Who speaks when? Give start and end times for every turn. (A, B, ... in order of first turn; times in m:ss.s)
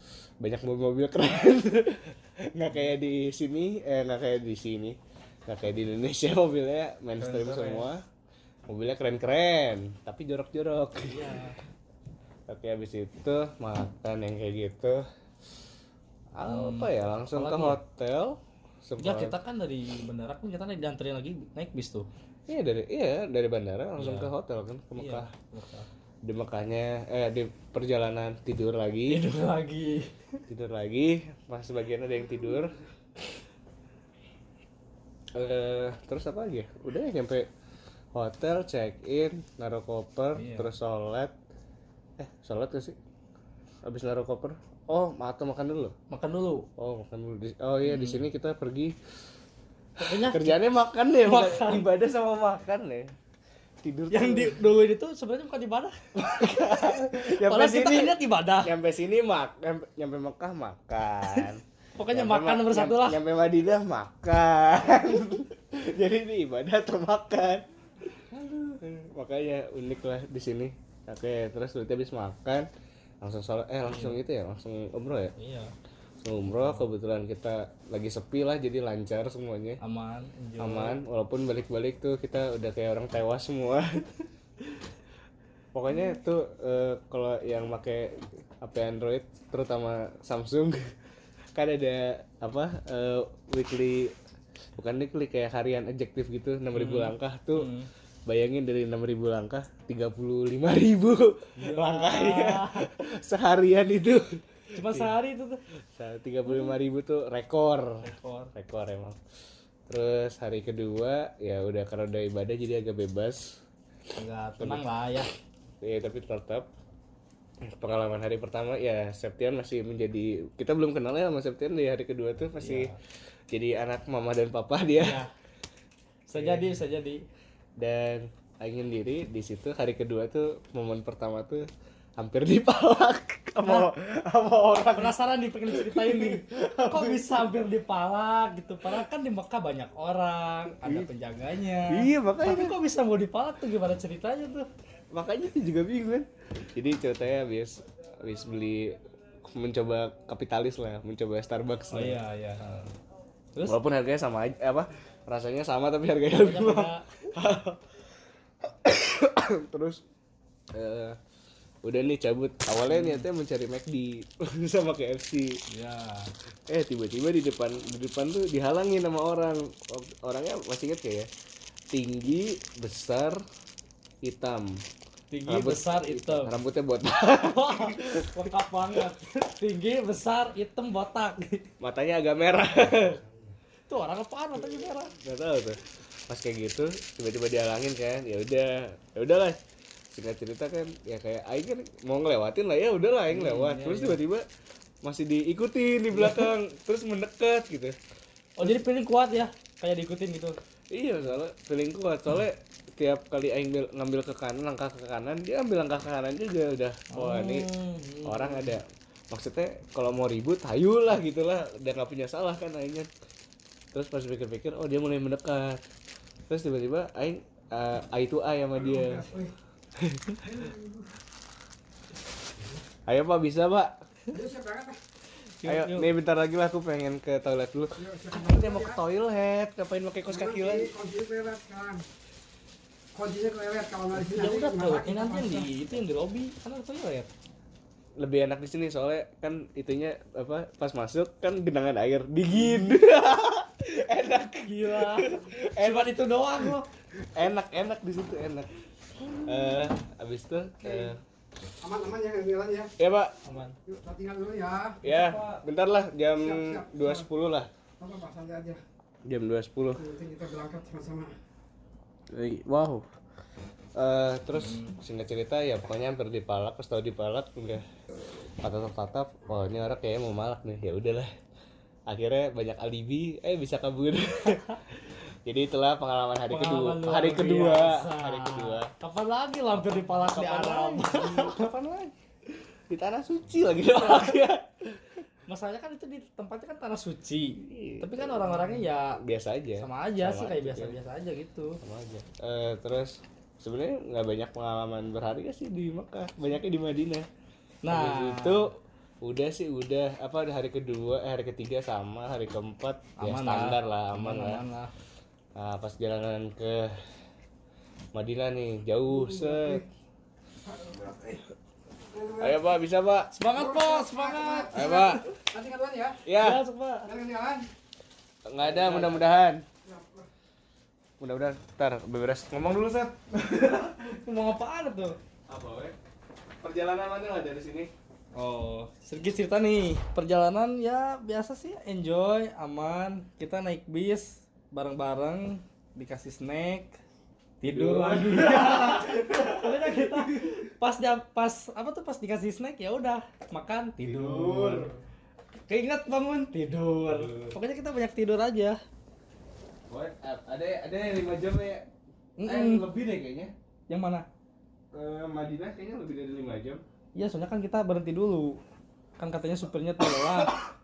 0:00.4-0:08.0 A
0:02.7-0:02.9 B
0:07.2-0:07.9 B
0:08.7-0:11.3 A
0:11.0-0:11.6 B
0:12.5-0:15.0 A
0:16.3-0:19.3 A
0:16.4-0:17.8 B
0:19.0-0:22.1 B
0:22.5-0:25.3 A
0:24.0-0:24.3 B
0:25.0-0:25.9 B
0:26.2-0:29.3 A
0:29.1-0:30.1 B
0:30.5-0:32.8 A
0:35.3-0:37.5 A
0:38.1-0:41.3 A
0:40.3-0:40.7 B
0:42.2-0:43.0 A
0:43.8-0:45.9 A
0:46.1-0:46.7 B
0:46.8-0:49.0 A
0:47.8-0:48.2 B
0:50.0-0:50.6 B
0:50.1-0:53.1 A
0:51.2-0:51.8 B
0:53.8-0:54.6 A
0:54.1-0:58.7 B
0:56.1-1:12.7 A
1:02.0-1:03.2 B
1:13.2-1:15.3 A
1:13.8-1:14.2 B
1:15.4-1:15.7 B
1:16.2-1:19.8 A
1:19.8-1:21.0 B
1:20.6-1:24.1 A
1:25.7-1:30.8 A
1:31.5-1:34.1 A
1:34.8-1:37.7 A
1:36.7-1:37.9 B
1:38.3-1:45.1 A
1:41.6-1:42.9 B
1:44.7-1:45.6 B
1:45.9-1:49.2 A
1:48.0-1:48.5 B
1:49.9-1:53.6 A
1:54.2-1:55.3 B
1:55.8-1:56.7 A
1:57.6-2:02.9 A
2:02.6-2:03.0 B
2:03.5-2:05.2 A
2:05.0-2:05.3 B
2:06.3-2:07.2 B
2:06.3-2:06.7 A
2:07.8-2:17.4 A
2:13.6-2:13.9 B
2:14.9-2:24.7 B
2:20.8-2:21.1 A
2:21.9-2:22.8 A
2:25.1-2:32.2 A
2:31.9-2:32.8 B
2:33.6-2:37.8 A
2:36.3-2:37.0 B
2:38.6-2:40.0 A
2:40.7-2:41.2 A
2:41.8-2:45.6 A
2:42.9-2:43.2 B
2:45.7-2:46.3 B
2:46.7-2:51.3 A
2:51.9-2:53.4 A
2:54.2-2:54.8 A
2:55.3-2:56.6 B
2:55.5-2:58.5 A
2:57.2-3:01.7 B
3:01.8-3:03.4 A
3:03.9-3:05.1 B
3:05.1-3:09.6 A
3:10.1-3:14.4 A
3:13.3-3:14.2 B
3:15.0-3:18.0 A
3:16.1-3:16.5 B
3:18.6-3:20.6 B
3:20.9-3:27.7 A
3:27.1-3:28.8 B
3:28.2-3:33.1 A
3:33.9-3:35.8 A
3:36.5-3:39.3 A
3:38.8-3:39.5 C
3:40.0-3:40.4 A
3:40.4-3:41.0 C
3:43.1-3:44.0 A
3:44.3-3:45.0 C
3:45.6-3:46.1 B
3:45.6-3:50.9 A
3:48.0-3:49.0 C
3:50.3-3:52.0 C
3:53.1-3:55.7 C
3:54.2-3:57.3 B
3:58.2-4:06.7 A
4:04.6-4:06.9 B
4:07.3-4:08.7 A
4:09.4-4:11.2 A
4:10.8-4:11.1 C
4:11.8-4:12.9 C
4:13.0-4:13.3 A
4:13.4-4:13.7 B
4:13.8-4:15.0 C
4:15.0-4:17.7 A
4:15.0-4:15.6 B
4:16.4-4:17.2 C
4:18.0-4:18.8 C
4:19.2-4:20.0 A
4:20.0-4:21.3 C
4:22.3-4:23.0 A
4:24.0-4:27.8 A
4:24.6-4:25.0 B
4:28.6-4:31.3 A
4:32.1-4:38.9 A
4:36.5-4:42.1 B
4:39.9-4:42.1 A
4:42.9-4:45.0 A
4:43.9-4:44.3 B
4:45.5-4:49.2 B
4:47.6-4:51.0 A
4:49.8-4:51.8 B
4:51.8-4:57.3 A
4:57.8-4:58.6 B
4:57.9-5:04.6 A
5:03.2-5:04.9 B
5:05.5-5:06.9 A
5:08.1-5:09.8 A
5:09.1-5:09.8 C
5:10.7-5:11.3 C
5:12.1-5:12.6 C
5:12.4-5:13.3 A
5:13.3-5:15.2 B
5:13.5-5:16.2 C
5:14.7-5:15.2 A
5:16.2-5:16.6 A
5:16.4-5:17.1 B
5:17.0-5:17.7 C
5:18.4-5:19.6 A
5:18.6-5:19.2 B
5:19.8-5:20.2 C
5:21.2-5:24.1 A
5:24.0-5:25.2 B
5:25.5-5:25.9 A
5:26.6-5:27.9 A
5:28.3-5:37.0 B
5:37.6-5:44.9 B
5:37.6-5:40.6 A
5:44.0-5:45.0 A
5:45.7-5:48.8 B
5:47.1-5:47.5 A
5:49.9-5:51.9 A
5:52.4-5:52.9 B
5:52.4-5:53.5 A
5:53.9-5:54.2 B
5:54.9-5:56.8 A
5:57.2-5:58.6 B
5:59.2-6:00.6 B
6:00.2-6:00.5 A